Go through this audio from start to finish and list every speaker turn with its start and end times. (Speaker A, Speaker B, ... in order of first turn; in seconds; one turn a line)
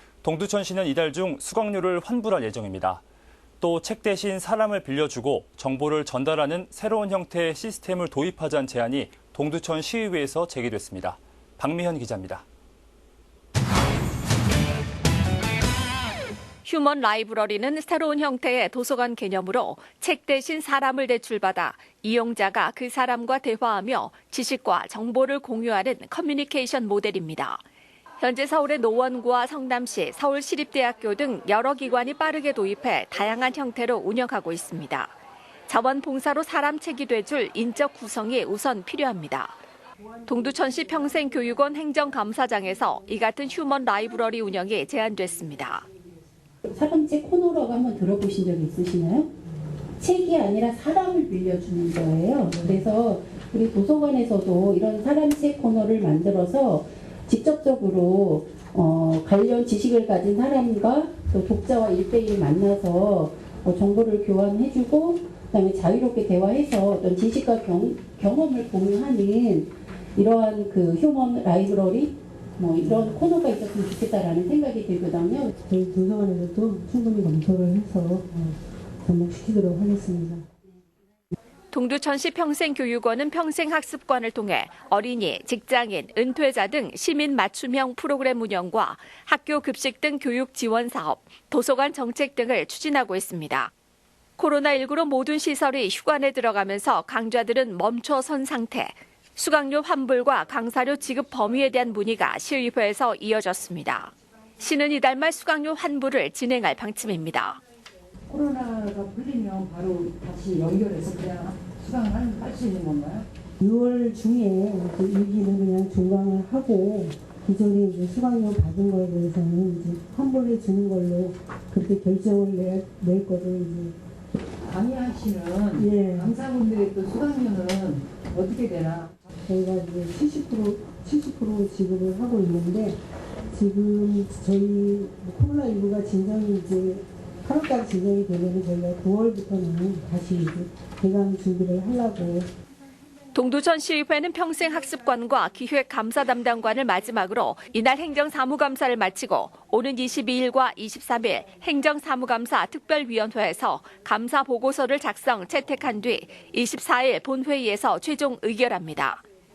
Speaker A: 0.2-3.0
Speaker A: 3.6-12.4
Speaker B: 16.6-27.6
Speaker B: 28.2-35.1
Speaker B: 35.7-39.5
Speaker B: 40.2-45.9
Speaker C: 46.6-49.3
Speaker C: 50.0-75.5
Speaker D: 75.6-80.5
Speaker B: 81.7-93.7
Speaker B: 94.4-107.6
Speaker E: 108.3-113.3
Speaker D: 113.6-124.0
Speaker E: 124.6-129.2
Speaker D: 125.7-126.3
Speaker D: 129.4-142.5
Speaker B: 143.3-159.2